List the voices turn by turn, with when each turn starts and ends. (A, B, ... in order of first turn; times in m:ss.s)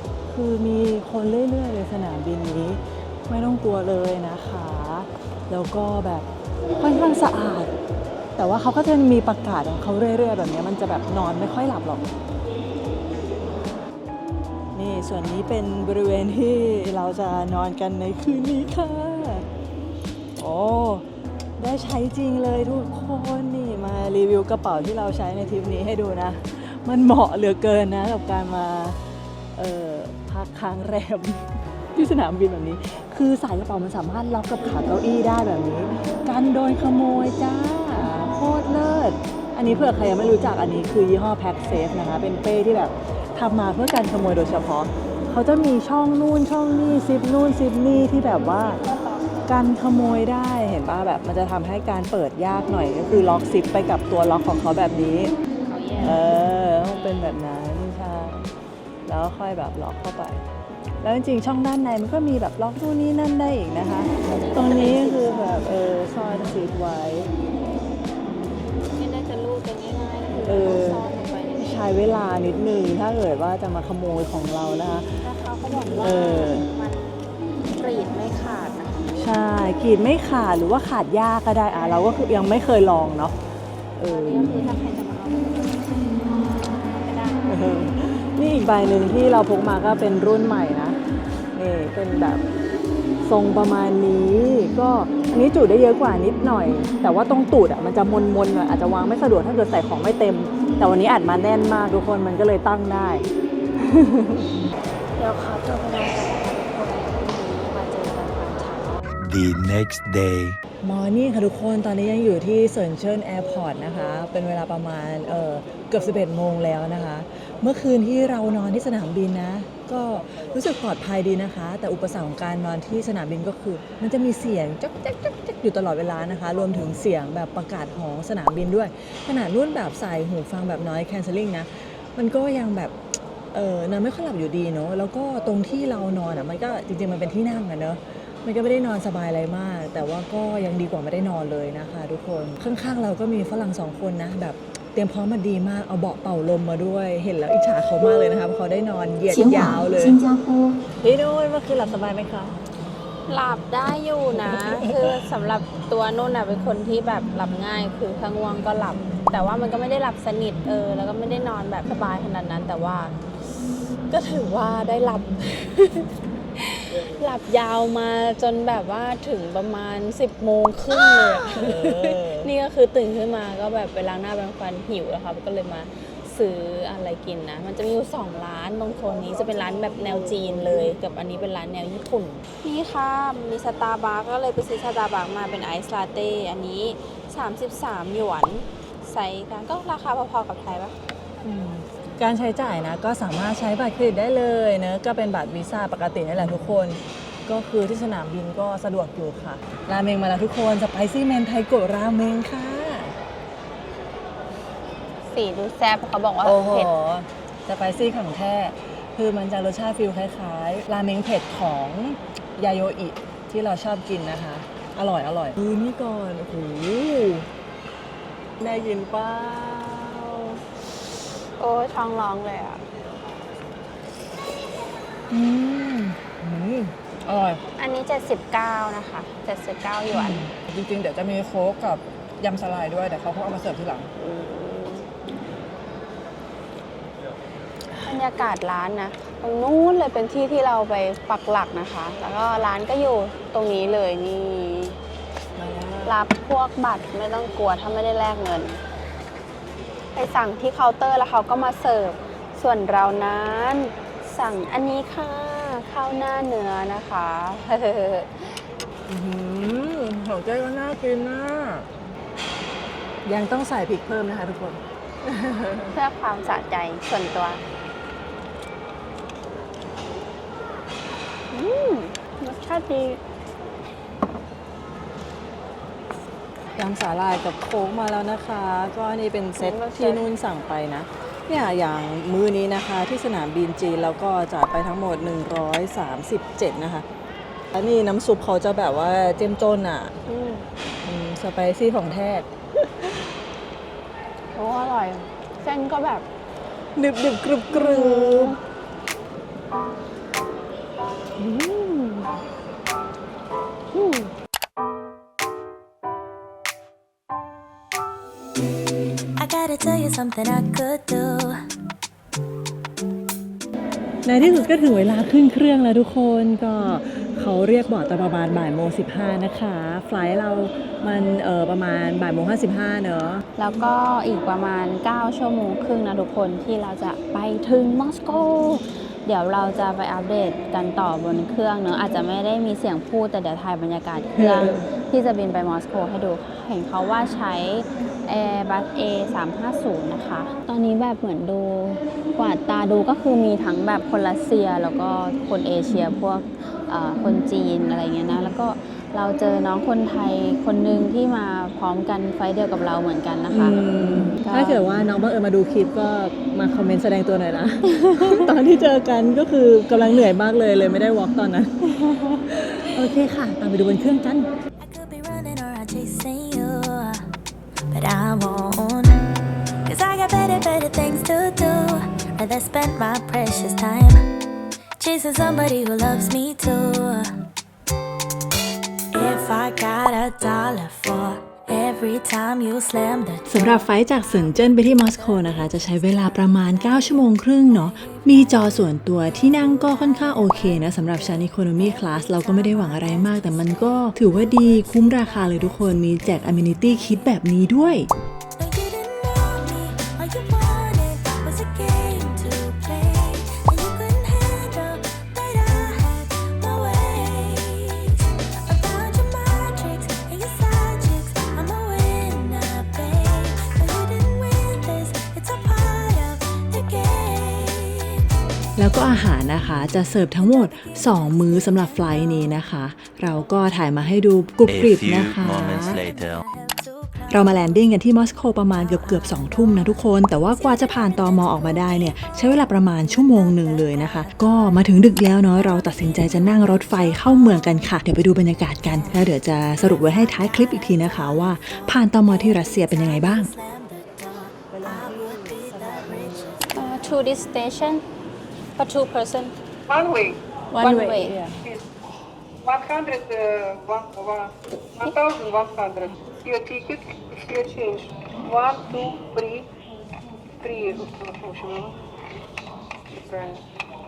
0:00.2-0:07.7 A
0:08.4-0:12.1 A
0:14.7-0:19.4 A
0:20.4-0:21.0 A
0:21.6-0:29.0 A
0:29.5-0:48.8 A
0:48.8-0:49.4 B
0:49.5-0:55.3 A
0:55.5-0:57.4 B
0:56.0-0:58.5 A
0:59.0-1:00.4 A
1:01.0-1:07.3 A
1:04.2-1:05.7 B
1:08.9-1:12.0 B
1:10.4-1:11.0 A
1:11.6-1:15.2 A
1:15.2-1:17.2 B
1:16.0-1:16.6 A
1:17.7-1:19.1 B
1:19.2-1:23.4 A
1:24.0-1:24.8 A
1:24.0-1:27.6 B
1:27.4-1:31.0 A
1:31.5-1:32.4 A
1:33.2-1:43.2 A
1:43.8-1:44.5 A
1:45.2-1:49.0 B
1:49.2-1:50.6 C
1:50.8-2:13.0 A
2:13.5-2:30.2 A
2:29.3-2:30.7 B
2:31.0-2:32.5 A
2:33.3-2:43.1 B
2:34.5-2:34.9 A
2:44.1-3:10.9 B
2:51.5-2:52.5 A
3:11.4-3:23.1 A
3:25.3-3:26.9 B
3:26.4-3:37.5 A
3:38.6-3:40.6 A
3:41.6-3:42.8 B
3:45.3-3:47.6 A
3:47.8-3:50.5 B
3:50.1-3:54.1 A
3:54.2-3:55.1 B
3:58.0-4:05.0 B
4:05.6-4:06.2 A
4:06.0-4:08.8 B
4:10.1-4:18.5 B
4:19.1-4:21.9 A
4:23.2-4:25.9 A
4:25.9-4:27.6 B
4:31.5-4:33.2 B
4:36.8-4:47.0 A
4:39.6-4:40.2 B
4:47.7-4:50.1 A
4:50.3-4:50.7 B
4:51.0-4:53.1 A
4:54.5-4:56.2 B
4:57.0-4:58.6 A
4:57.7-4:58.6 B
5:01.4-5:02.3 B
5:03.9-5:04.3 B
5:09.4-5:11.6 D
5:14.2-5:23.4 A
5:23.6-5:54.9 B
5:34.3-5:34.8 A
5:53.5-6:04.5 A
5:58.0-5:58.4 B
6:04.8-6:07.3 D
6:07.9-6:14.2 D
6:15.0-6:17.4 D
6:19.1-6:37.4 D
6:23.5-6:38.1 A
6:38.6-7:03.9 D
6:58.8-7:06.0 A
7:04.6-7:06.4 C
7:05.4-7:07.9 D
7:07.3-7:23.5 A
7:08.5-7:18.0 D
7:18.8-7:26.9 D
7:24.8-7:26.2 A
7:26.7-7:28.0 B
7:28.8-7:29.5 B
7:29.9-7:30.4 E
7:30.7-7:31.6 A
7:30.8-7:31.4 B
7:32.6-7:39.7 E
7:40.6-7:42.0 E
7:43.2-7:43.6 E